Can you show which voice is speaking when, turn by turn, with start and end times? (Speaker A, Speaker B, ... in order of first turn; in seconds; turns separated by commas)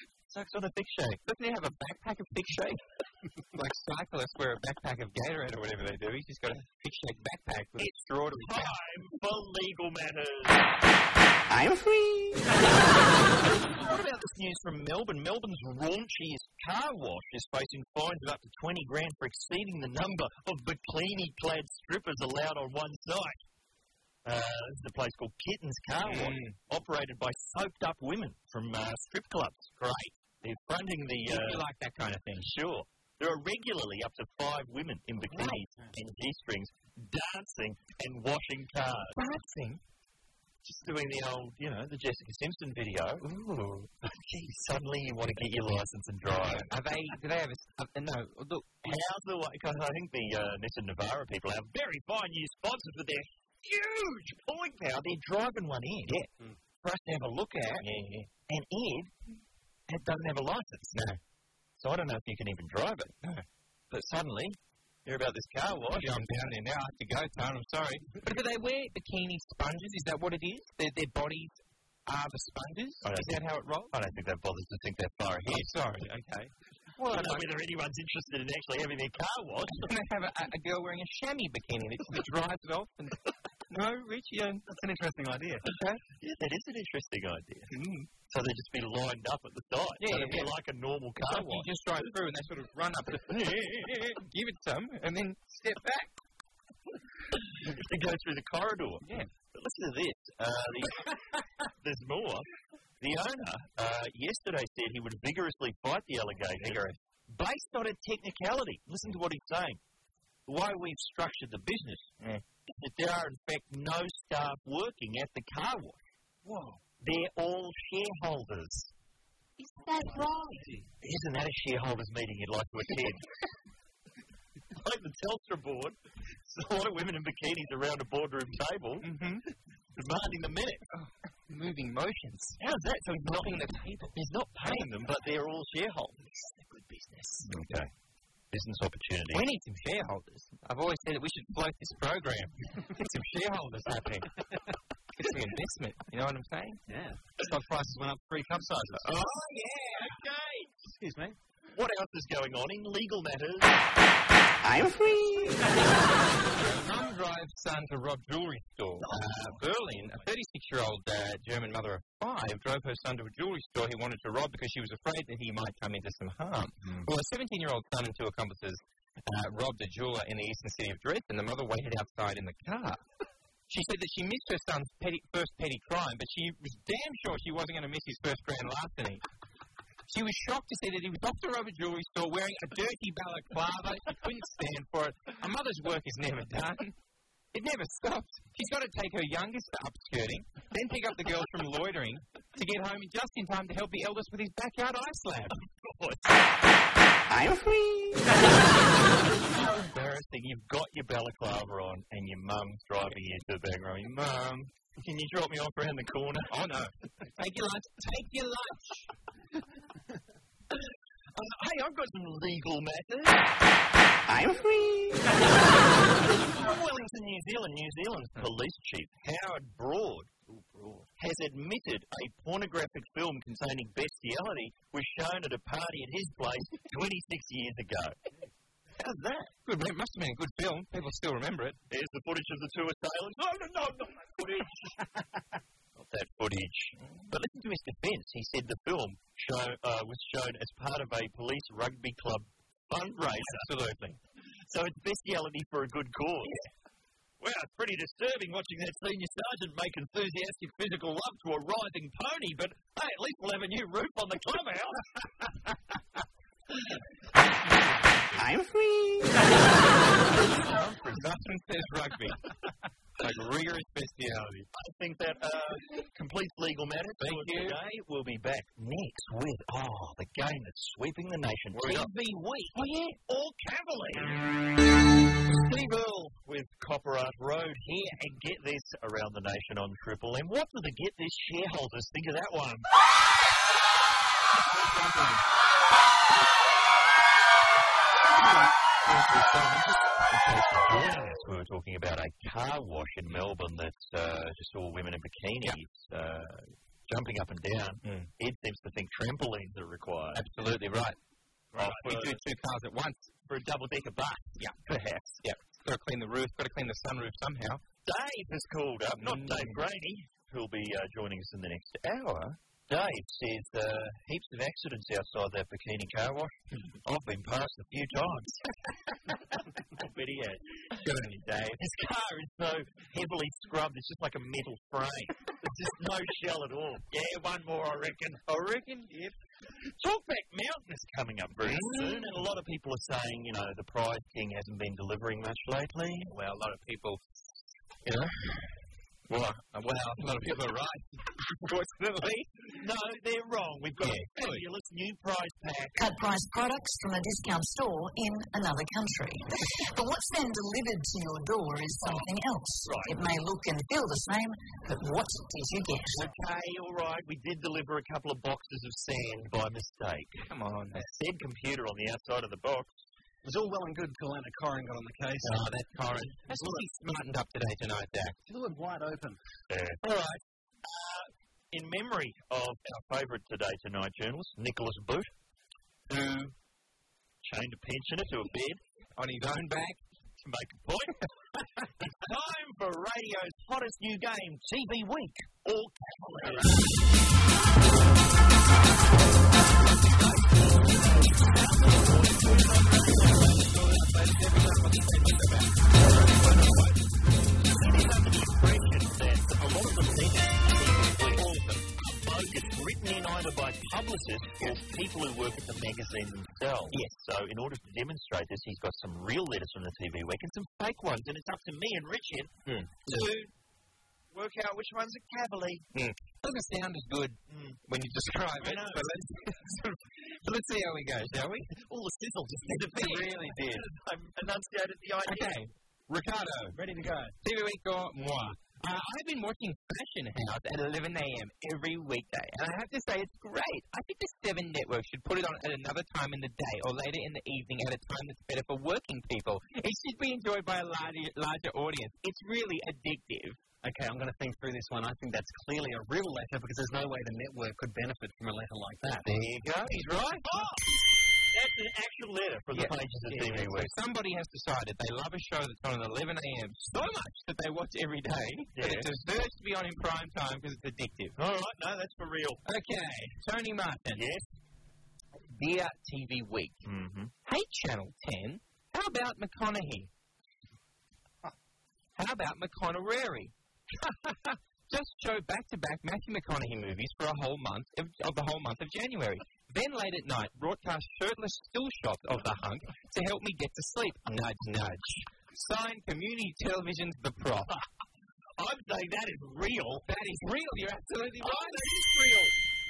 Speaker A: 0.3-1.2, Speaker B: 1.2-2.8, Speaker B: 3.5-8.7, Speaker A: 7.8-10.7, Speaker C: 11.5-12.7, Speaker A: 13.6-23.4, Speaker A: 24.2-29.8, Speaker B: 26.0-26.6, Speaker B: 29.8-30.1, Speaker A: 30.4-31.6, Speaker B: 31.3-32.5, Speaker A: 32.4-39.2, Speaker B: 39.1-39.8, Speaker A: 40.6-46.7, Speaker B: 46.3-48.8, Speaker A: 48.8-56.1, Speaker A: 56.8-57.9, Speaker B: 57.8-58.3, Speaker A: 58.5-59.1, Speaker A: 59.9-61.0, Speaker B: 60.9-61.2, Speaker A: 61.8-63.1, Speaker A: 63.9-66.2, Speaker B: 65.9-73.9, Speaker A: 73.0-75.7, Speaker B: 75.5-77.5, Speaker A: 77.0-79.9, Speaker B: 79.7-83.2, Speaker B: 83.7-84.7, Speaker D: 84.7-85.6, Speaker B: 85.6-86.0, Speaker A: 86.2-87.7, Speaker B: 87.7-88.1, Speaker A: 88.3-91.7, Speaker B: 90.0-90.5, Speaker B: 91.2-96.1, Speaker A: 97.7-101.1, Speaker A: 101.8-102.5, Speaker A: 103.0-109.8, Speaker B: 106.6-107.0, Speaker A: 110.5-112.1, Speaker A: 112.7-116.0, Speaker A: 117.0-118.9, Speaker B: 119.6-120.7, Speaker A: 121.0-123.2, Speaker A: 124.7-129.1, Speaker B: 129.0-129.4, Speaker A: 129.9-130.8, Speaker B: 130.9-132.6, Speaker A: 132.6-136.3, Speaker B: 133.3-134.2, Speaker B: 136.4-137.5, Speaker A: 137.4-137.9, Speaker A: 138.5-139.5, Speaker B: 139.3-144.3, Speaker B: 145.2-146.8, Speaker D: 146.9-149.1, Speaker B: 149.0-150.2, Speaker A: 150.0-150.7, Speaker D: 150.9-151.4, Speaker A: 151.7-153.8, Speaker C: 154.6-155.8, Speaker B: 156.4-173.0, Speaker D: 159.2-159.5, Speaker A: 166.8-167.1, Speaker B: 173.7-179.2, Speaker B: 180.1-186.9, Speaker B: 187.5-195.6, Speaker A: 195.8-196.5, Speaker C: 197.3-198.6, Speaker A: 199.5-206.6, Speaker B: 206.5-209.1, Speaker A: 211.3-213.5, Speaker C: 214.3-215.3, Speaker A: 216.2-220.3, Speaker B: 220.5-221.1, Speaker A: 221.2-228.2, Speaker A: 228.9-229.5, Speaker B: 229.6-231.8, Speaker A: 231.9-234.9, Speaker A: 235.9-243.7, Speaker B: 237.0-237.3, Speaker B: 243.4-244.2, Speaker A: 244.7-246.5, Speaker A: 247.4-255.1, Speaker C: 258.4-259.5, Speaker A: 260.2-261.3, Speaker B: 261.1-262.4, Speaker B: 263.2-264.7, Speaker A: 264.7-274.4, Speaker B: 267.2-267.8, Speaker B: 271.7-273.2, Speaker A: 275.5-282.9, Speaker B: 284.7-285.4, Speaker A: 289.0-300.4, Speaker B: 298.0-298.3, Speaker B: 300.3-301.1, Speaker A: 301.7-302.4, Speaker B: 301.7-303.3, Speaker A: 303.5-305.4, Speaker B: 305.4-307.8, Speaker A: 308.0-318.7, Speaker B: 309.1-309.8, Speaker A: 319.9-320.6, Speaker B: 320.9-321.8, Speaker A: 321.8-328.5, Speaker B: 328.5-329.3, Speaker A: 330.0-336.3, Speaker B: 331.6-332.4, Speaker B: 336.3-337.4, Speaker B: 338.0-338.7, Speaker B: 339.3-342.5, Speaker A: 342.7-346.0, Speaker B: 344.0-344.6, Speaker E: 345.9-356.3, Speaker A: 352.8-353.1, Speaker A: 356.1-362.9, Speaker B: 360.5-361.0, Speaker D: 363.4-365.5, Speaker B: 365.4-368.4, Speaker D: 366.5-366.8, Speaker D: 368.5-369.4, Speaker A: 369.7-370.2, Speaker B: 370.1-370.4, Speaker A: 370.8-375.3, Speaker B: 376.1-376.5, Speaker A: 377.4-378.8, Speaker B: 379.1-380.0, Speaker A: 380.4-381.2, Speaker A: 382.1-386.8, Speaker A: 390.0-393.5, Speaker B: 393.4-397.0, Speaker A: 397.6-412.5, Speaker B: 401.4-401.8, Speaker B: 406.9-407.2, Speaker B: 412.6-413.3, Speaker A: 413.0-413.5, Speaker A: 414.3-415.8, Speaker B: 415.9-421.7, Speaker A: 417.5-417.8, Speaker A: 418.6-419.1, Speaker A: 421.7-425.6, Speaker B: 422.6-423.8, Speaker B: 425.2-426.8, Speaker D: 426.7-427.3, Speaker B: 427.4-443.6, Speaker D: 443.8-449.2, Speaker B: 449.2-450.6, Speaker A: 450.4-453.9, Speaker B: 452.7-461.4, Speaker A: 458.7-459.1, Speaker A: 461.4-462.6, Speaker B: 462.6-464.2, Speaker A: 464.1-464.4, Speaker B: 465.5-466.8, Speaker A: 466.8-467.3, Speaker B: 467.4-470.1, Speaker B: 472.1-487.8, Speaker A: 488.6-490.1, Speaker B: 490.0-492.5, Speaker A: 491.4-492.1